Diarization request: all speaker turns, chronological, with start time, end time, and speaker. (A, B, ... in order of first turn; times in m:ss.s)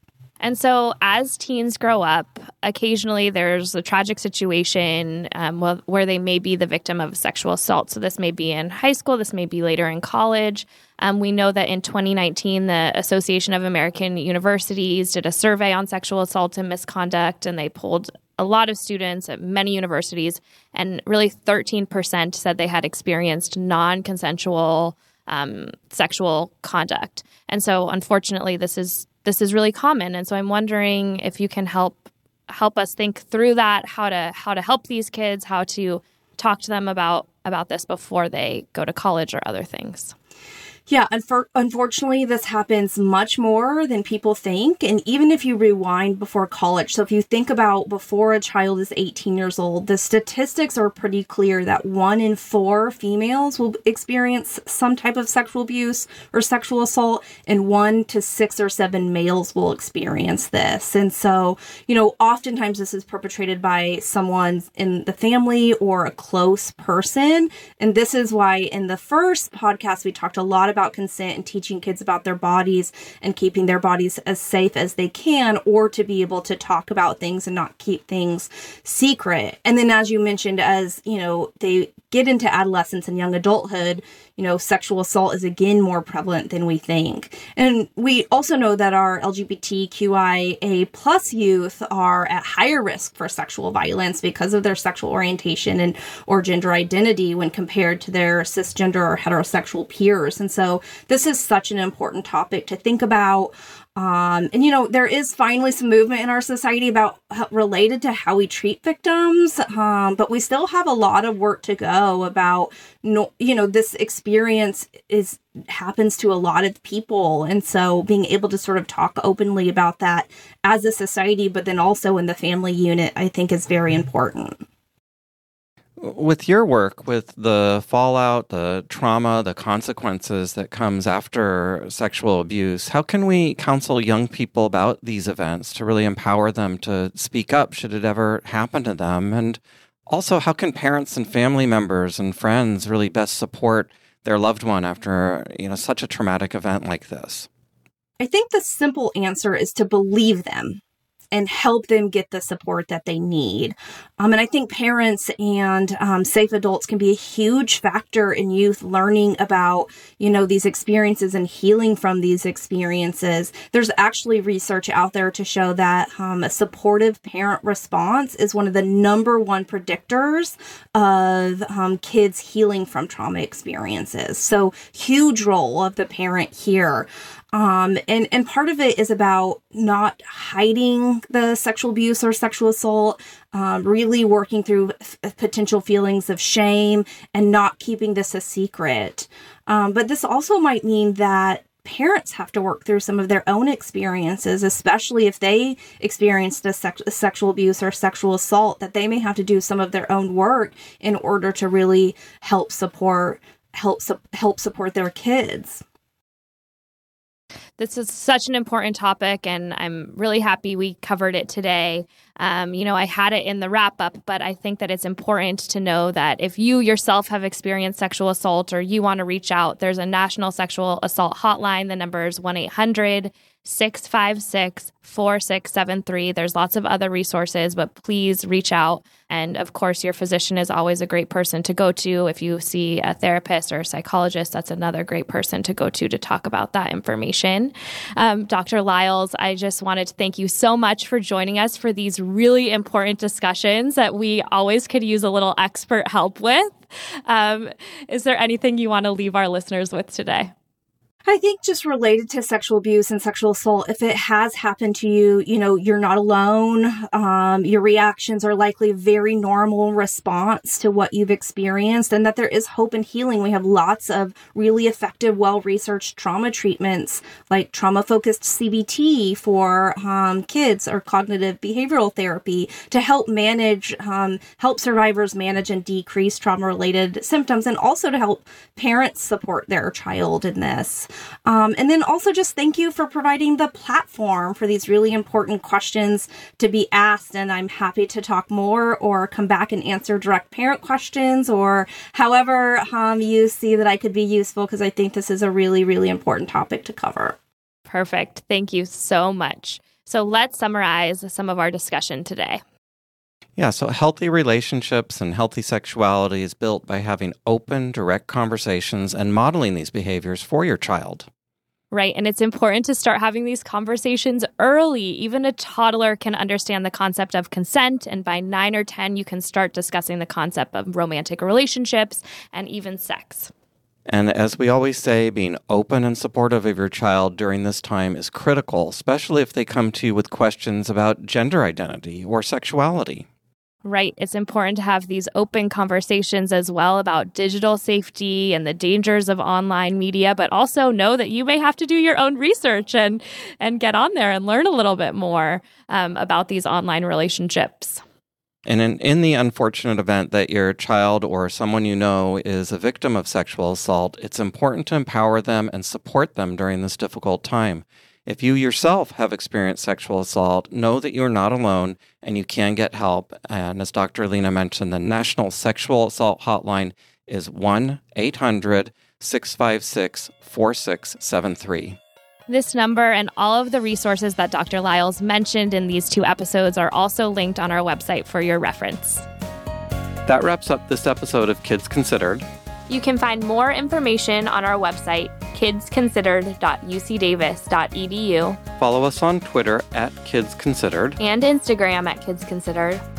0:00.4-0:40.1 A
0:40.9-2:04.6 B
2:06.0-2:27.5 C
2:28.2-2:30.8 B
2:31.3-3:25.8 B
3:27.8-4:10.5 A
4:11.2-4:57.4 B
4:57.9-5:02.6 A
5:03.6-5:11.3 C
5:11.9-5:23.5 A
5:24.1-5:33.2 C
5:33.8-5:48.0 A
5:48.6-6:12.0 C
6:12.5-6:19.2 A
6:20.2-6:22.4 C
6:22.9-6:28.6 A
6:28.8-6:31.2 C
6:31.2-6:33.0 A